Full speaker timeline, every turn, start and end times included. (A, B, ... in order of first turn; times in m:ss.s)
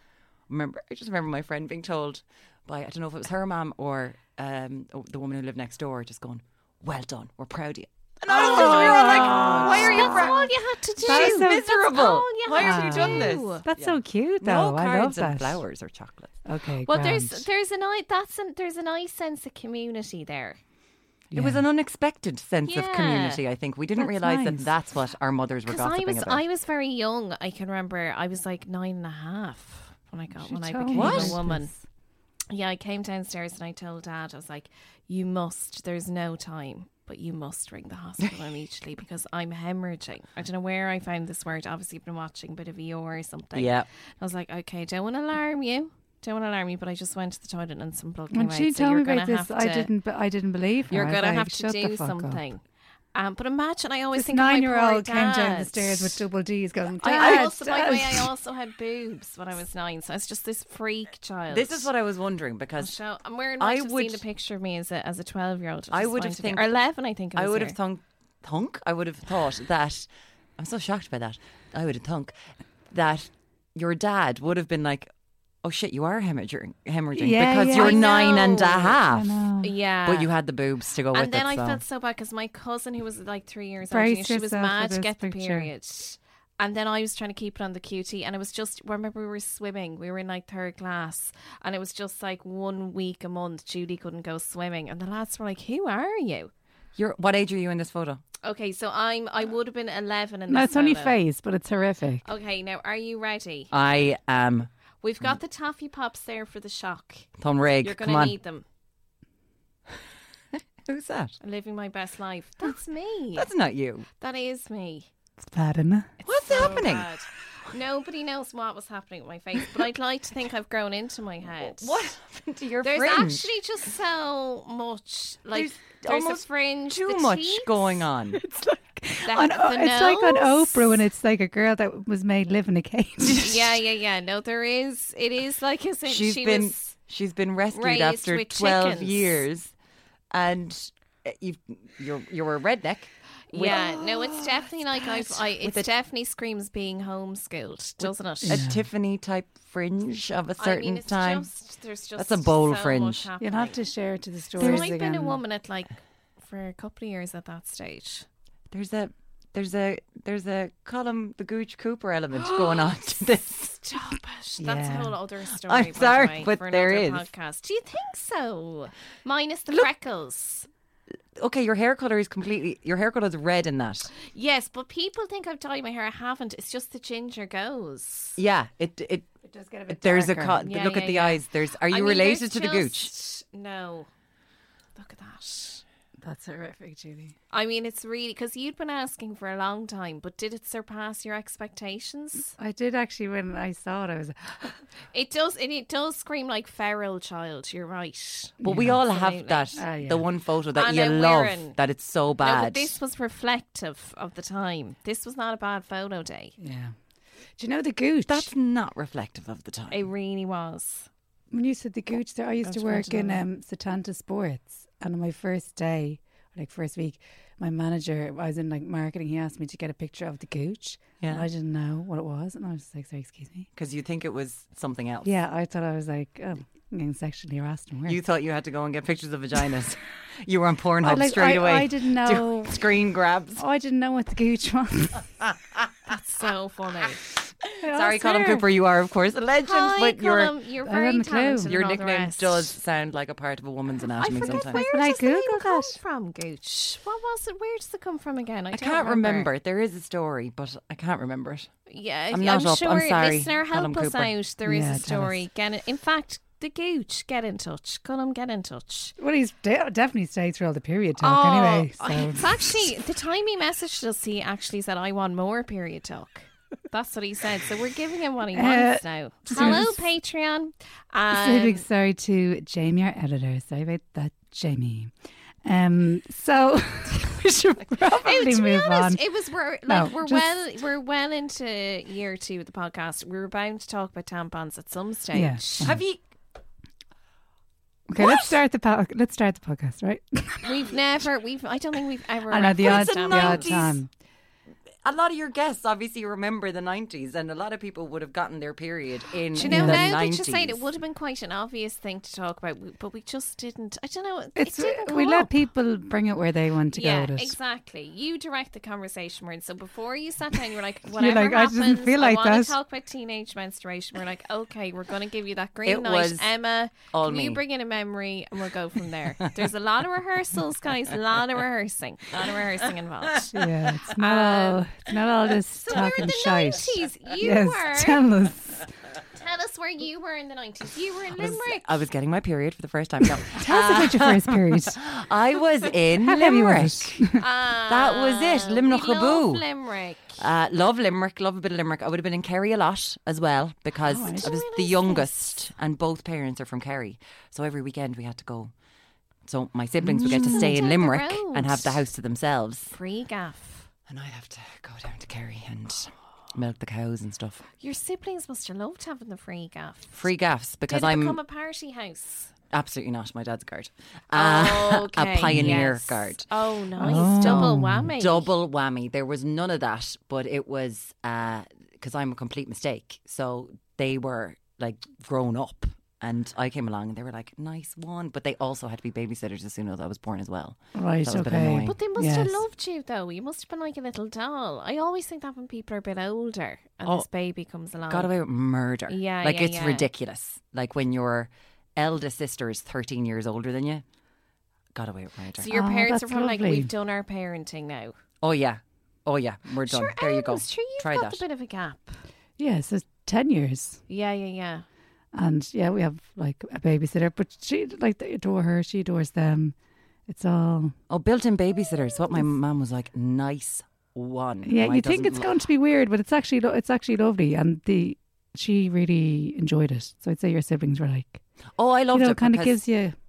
0:00.5-0:10.5 A
0:08.3-0:10.4 B
0:08.3-0:13.6 C
0:11.0-0:16.3 A
0:11.0-0:11.6 B
0:12.6-0:15.6 B
0:16.4-0:17.4 B
0:16.8-0:20.6 C
0:21.3-0:21.6 B
0:21.3-0:26.4 A
0:22.7-0:23.4 C
0:24.0-0:24.7 B
0:25.7-0:31.7 C
0:30.4-0:31.8 B
0:30.9-0:31.4 A
0:32.5-0:49.9 C
0:43.5-0:43.9 A
0:48.3-0:52.4 B
0:50.9-0:52.6 C
0:53.1-0:56.2 C
0:54.1-0:58.3 B
0:57.0-1:01.9 C
0:57.1-0:57.5 A
1:01.5-1:02.9 A
1:02.8-1:07.8 C
1:03.6-1:04.2 A
1:05.9-1:06.7 A
1:07.3-1:10.1 A
1:10.6-1:12.4 A
1:12.9-1:15.1 A
1:15.6-1:19.4 A
1:17.1-1:18.1 B
1:17.7-1:19.0 C
1:19.0-1:19.7 B
1:19.6-1:20.3 C
1:20.0-1:21.8 A
1:21.1-1:36.5 C
1:23.9-1:25.7 B
1:37.0-1:38.2 A
1:38.4-1:41.2 C
1:40.5-1:42.2 B
1:42.2-1:43.7 C
1:43.7-1:44.7 A
1:45.0-1:47.3 C
1:47.4-1:48.3 A
1:47.8-1:48.6 C
1:50.9-1:51.4 A
1:51.4-1:53.5 C
1:53.3-1:54.1 A
1:54.2-1:55.1 C
1:55.4-1:56.1 B
1:56.2-2:02.0 C
1:56.2-1:57.1 A
2:01.6-2:03.4 A
2:02.8-2:07.8 C
2:05.5-2:08.4 A
2:08.3-2:13.6 B
2:09.2-2:11.0 C
2:13.3-2:16.8 C
2:16.0-2:19.7 A
2:17.7-2:19.4 C
2:20.3-2:25.9 A
2:23.5-2:28.6 C
2:28.0-2:31.5 A
2:28.4-2:28.8 B
2:30.6-2:33.9 C
2:32.2-2:33.2 A
2:33.4-2:35.4 B
2:34.6-2:38.2 C
2:34.6-2:34.9 A
2:38.7-2:43.9 A
2:42.4-2:43.0 C
2:43.8-2:50.7 C
2:44.6-2:45.1 B
2:45.6-2:47.3 A
2:51.4-2:54.1 A
2:54.2-2:58.4 C
2:58.4-2:59.3 A
2:59.4-3:00.6 B
2:59.9-3:03.1 A
3:00.6-3:04.1 C
3:05.0-3:05.8 C
3:06.2-3:07.4 B
3:07.5-3:12.5 C
3:12.6-3:14.8 B
3:15.1-3:19.8 C
3:18.6-3:19.0 B
3:18.6-3:22.9 A
3:19.8-3:20.3 B
3:20.7-3:21.8 C
3:22.4-3:26.5 C
3:26.6-3:27.0 B
3:27.6-3:28.5 B
3:28.3-3:30.0 A
3:29.9-3:31.1 C
3:31.5-3:43.7 B
3:32.6-3:33.4 C
3:41.2-3:41.4 A
3:43.8-3:45.3 A
3:45.2-3:48.2 B
3:48.1-3:53.6 A
3:51.0-3:52.9 B
3:53.6-3:55.3 B
3:56.1-3:57.2 C
3:57.7-4:00.6 A
3:57.8-3:58.7 B
3:59.6-4:02.7 C
4:00.8-4:01.7 B
4:01.6-4:04.8 A
4:04.2-4:09.5 C
4:04.4-4:06.0 B
4:08.7-4:11.7 A
4:11.9-4:19.1 C
4:12.3-4:14.3 A
4:14.6-4:15.4 B
4:19.2-4:22.9 B
4:21.2-4:31.8 C
4:28.5-4:30.0 B
4:29.6-4:29.8 A
4:31.3-4:39.2 B
4:38.2-4:46.0 C
4:39.8-4:40.6 B
4:45.3-4:46.0 B
4:45.8-4:46.2 A
4:48.1-4:50.9 B
4:48.2-4:48.5 C
4:50.6-4:53.7 C
4:52.5-4:54.1 B
4:52.8-4:54.0 A
4:55.0-5:00.8 A
4:59.5-5:05.5 C
4:59.6-5:00.2 B
5:04.6-5:07.6 B
5:06.9-5:23.5 C
5:11.1-5:12.8 B
5:15.8-5:16.5 A
5:17.1-5:17.6 A
5:23.5-5:28.8 B
5:24.2-5:24.8 C
5:25.7-5:28.2 C
5:26.0-5:26.6 A
5:29.3-5:31.8 C
5:31.3-5:37.3 A
5:33.6-5:35.0 B
5:36.2-5:37.4 B
5:37.4-5:40.4 C
5:37.9-5:39.6 A
5:40.4-5:48.7 A
5:44.1-5:44.5 B
5:44.2-5:45.6 C
5:49.4-5:53.0 A
5:50.0-5:50.8 B
5:50.3-5:51.9 C
5:52.9-5:53.9 C
5:54.1-5:57.6 A
5:57.8-6:00.2 C
6:00.1-6:01.4 A
6:00.9-6:02.5 C
6:02.7-6:06.5 A
6:04.3-6:08.5 C
6:05.5-6:05.8 B
6:07.0-6:08.1 B
6:07.1-6:22.0 A
6:20.9-6:22.6 B
6:21.8-6:28.3 C
6:28.1-6:34.0 A
6:29.1-6:30.1 C
6:34.9-6:35.7 A
6:35.6-6:38.1 C
6:35.7-6:36.9 B
6:38.4-6:41.4 A
6:39.8-6:42.2 C
6:42.6-6:44.0 B
6:44.1-6:44.8 C
6:45.3-6:49.7 B
6:50.3-6:50.9 B
6:51.1-6:55.5 A
6:54.6-7:01.4 B
7:01.8-7:02.8 A
7:02.1-7:03.2 B